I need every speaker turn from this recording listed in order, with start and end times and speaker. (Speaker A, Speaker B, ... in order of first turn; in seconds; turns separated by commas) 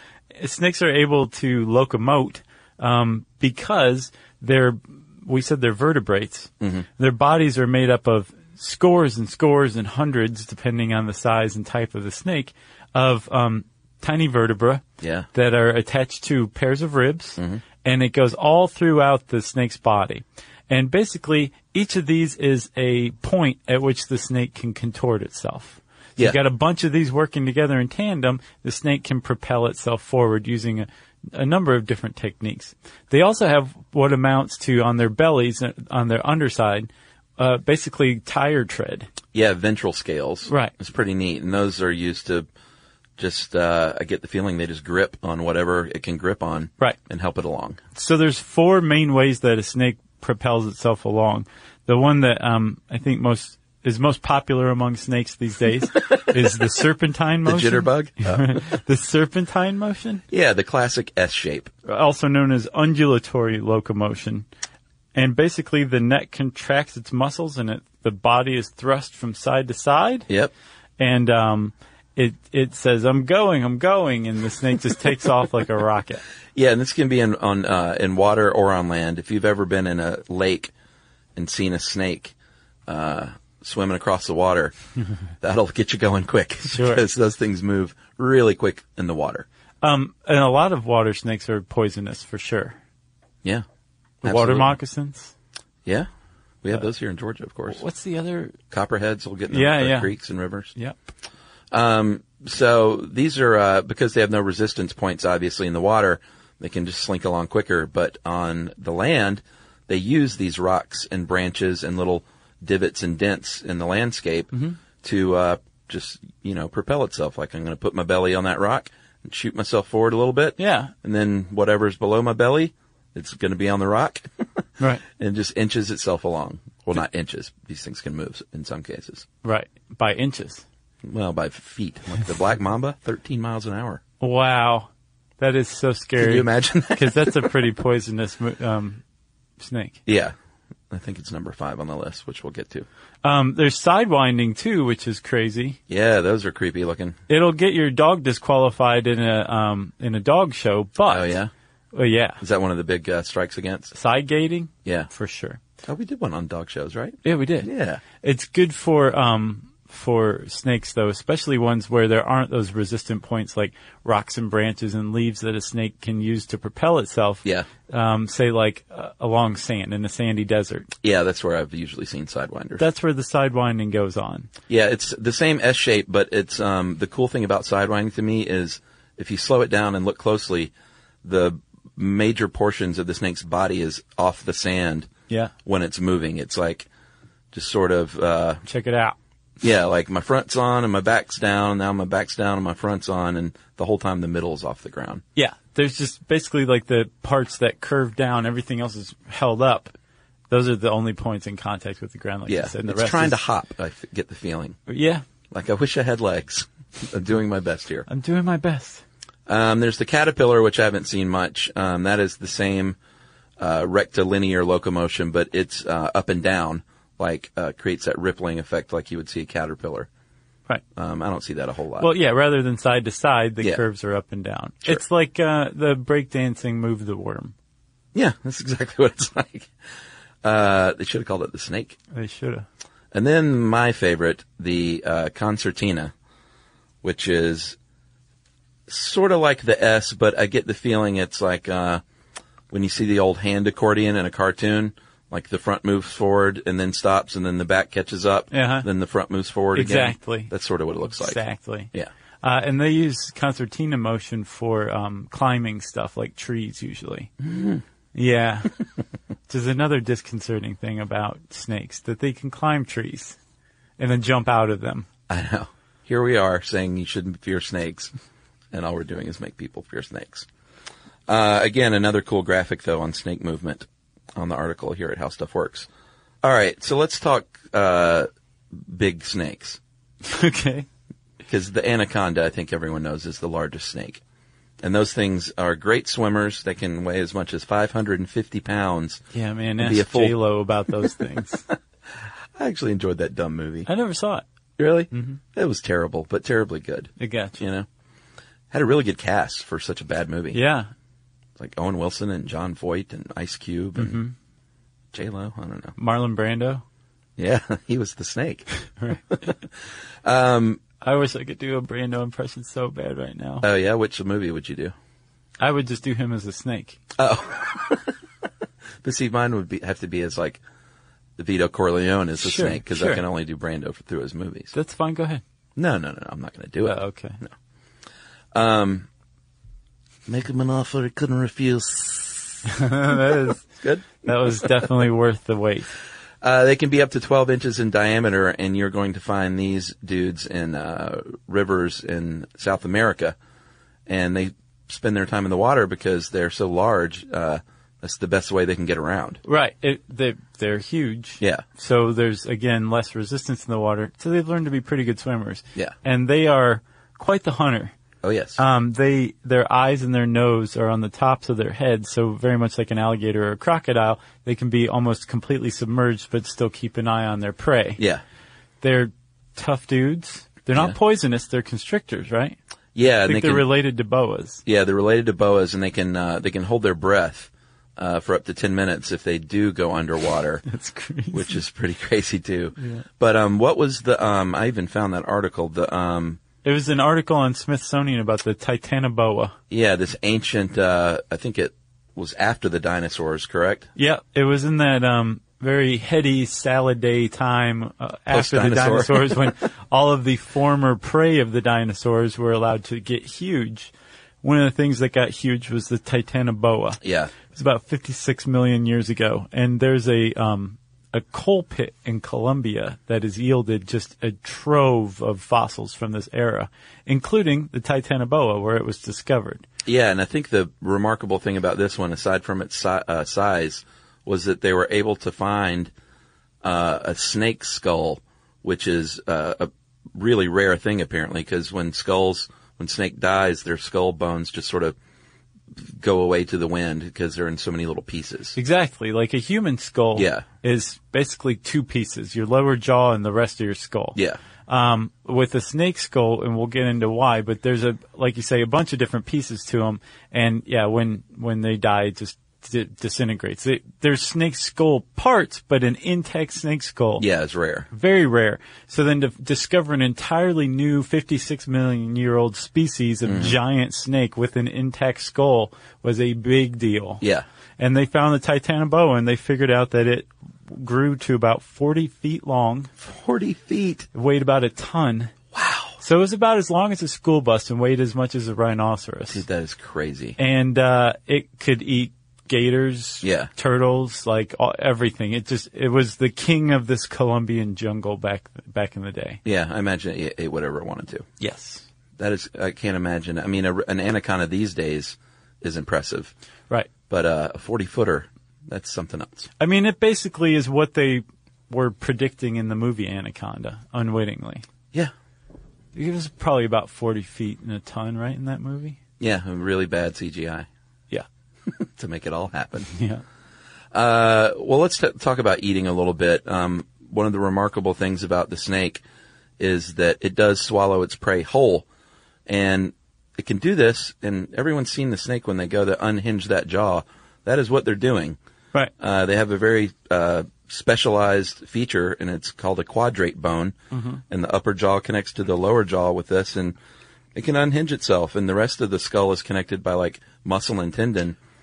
Speaker A: 0.3-39.1, Speaker B: 6.6-6.9, Speaker B: 15.0-15.3, Speaker B: 39.3-42.5, Speaker A: 40.5-40.7, Speaker B: 43.2-47.8, Speaker A: 47.9-60.2, Speaker B: 57.5-58.6, Speaker B: 60.3-61.7, Speaker A: 61.9-64.5, Speaker A: 65.1-70.3, Speaker A: 71.0-76.2, Speaker B: 76.5-80.7, Speaker B: 81.4-82.3, Speaker B: 82.9-84.8, Speaker B: 85.4-89.5, Speaker A: 86.7-87.0, Speaker A: 89.8-92.8, Speaker B: 94.2-94.8, Speaker A: 94.2-95.3, Speaker B: 96.6-97.8, Speaker A: 97.7-98.5, Speaker B: 98.7-100.7, Speaker A: 99.5-100.1, Speaker B: 101.7-124.5, Speaker A: 114.5-114.8, Speaker A: 120.6-120.9, Speaker B: 125.1-129.3, Speaker A: 129.4-130.6, Speaker B: 131.0-134.0, Speaker A: 134.2-139.0, Speaker B: 136.2-137.5, Speaker A: 139.6-140.0, Speaker B: 140.1-140.3, Speaker B: 140.9-142.9, Speaker A: 143.2-145.8, Speaker B: 145.9-147.2, Speaker A: 147.3-151.4, Speaker B: 151.1-151.5, Speaker A: 151.9-152.4, Speaker B: 152.4-153.9, Speaker A: 153.9-155.6, Speaker B: 154.8-155.1, Speaker B: 155.8-158.0, Speaker A: 157.2-170.9, Speaker B: 171.0-172.8, Speaker A: 172.8-174.5, Speaker B: 174.7-180.7, Speaker B: 181.2-185.1, Speaker B: 185.7-186.9, Speaker B: 187.5-188.6, Speaker A: 188.7-189.2, Speaker B: 189.6-195.2, Speaker A: 195.3-199.9, Speaker A: 200.5-203.4, Speaker B: 202.5-204.8, Speaker A: 204.9-205.2, Speaker B: 205.5-208.1, Speaker A: 208.1-209.0, Speaker B: 209.5-213.0, Speaker B: 213.6-220.1, Speaker B: 221.0-222.1, Speaker A: 222.0-227.5, Speaker B: 228.1-229.7, Speaker B: 230.4-232.0, Speaker A: 232.1-232.7, Speaker B: 233.1-236.1, Speaker B: 237.0-237.8, Speaker B: 238.9-242.0, Speaker B: 242.7-251.4, Speaker A: 248.5-248.9, Speaker A: 249.7-250.5, Speaker A: 251.2-251.9, Speaker A: 252.4-257.3, Speaker B: 257.4-257.8, Speaker A: 258.1-258.7, Speaker A: 259.5-263.4, Speaker A: 264.0-265.1, Speaker B: 265.3-268.1, Speaker B: 268.7-270.5, Speaker B: 271.3-275.9, Speaker B: 276.4-279.8, Speaker A: 280.2-280.9, Speaker B: 281.4-284.2, Speaker B: 284.8-289.2, Speaker A: 289.3-291.7, Speaker B: 289.8-290.4, Speaker B: 292.6-293.9, Speaker A: 293.9-294.4, Speaker B: 294.8-297.9, Speaker A: 295.1-295.4, Speaker A: 297.2-297.6, Speaker B: 298.7-300.6, Speaker A: 300.5-300.9, Speaker B: 301.6-304.2, Speaker A: 304.0-304.3, Speaker B: 305.1-306.0, Speaker A: 306.0-306.8, Speaker B: 307.4-308.7, Speaker A: 309.0-309.3, Speaker B: 309.3-309.6, Speaker B: 310.2-310.8, Speaker A: 311.0-313.7, Speaker B: 313.6-314.9, Speaker A: 315.6-317.0, Speaker B: 317.2-318.1, Speaker B: 319.0-320.6, Speaker B: 321.4-324.7, Speaker A: 322.4-323.2, Speaker A: 324.7-325.4, Speaker B: 325.8-327.5, Speaker A: 326.9-327.4, Speaker B: 328.5-329.1, Speaker B: 330.3-332.7, Speaker A: 332.6-335.9, Speaker B: 333.4-334.7, Speaker B: 336.4-343.4, Speaker B: 344.1-349.4, Speaker A: 349.4-357.9, Speaker B: 358.2-358.6, Speaker A: 358.6-368.0, Speaker A: 368.8-372.6, Speaker B: 372.9-373.7, Speaker A: 373.3-374.6, Speaker B: 374.7-380.6, Speaker A: 380.6-381.6, Speaker B: 381.3-386.4, Speaker A: 382.8-383.1, Speaker A: 386.6-389.6, Speaker B: 389.7-393.9, Speaker A: 394.0-403.9, Speaker B: 398.3-399.5, Speaker A: 404.4-419.6, Speaker B: 407.0-407.3, Speaker B: 419.9-425.9, Speaker B: 426.6-435.0, Speaker B: 435.8-438.6, Speaker A: 438.6-457.3, Speaker B: 440.2-440.4, Speaker B: 457.2-457.9, Speaker A: 457.9-467.2, Speaker B: 463.3-463.6, Speaker A: 467.8-472.9, Speaker B: 473.0-474.1, Speaker A: 474.1-475.3, Speaker B: 475.5-476.0, Speaker A: 476.0-479.4, Speaker B: 479.3-480.4, Speaker A: 480.4-489.4, Speaker B: 483.2-483.5, Speaker B: 489.4-491.3, Speaker A: 491.4-491.9, Speaker B: 492.2-496.3, Speaker B: 497.1-499.5, Speaker A: 499.6-504.7, Speaker A: 505.9-509.0, Speaker B: 509.2-510.7, Speaker B: 511.7-512.9, Speaker A: 512.9-513.2, Speaker B: 513.9-519.0, Speaker B: 519.6-521.9, Speaker B: 522.5-528.4, Speaker B: 529.0-533.8, Speaker A: 533.9-534.2, Speaker B: 534.3-536.8, Speaker B: 537.4-541.4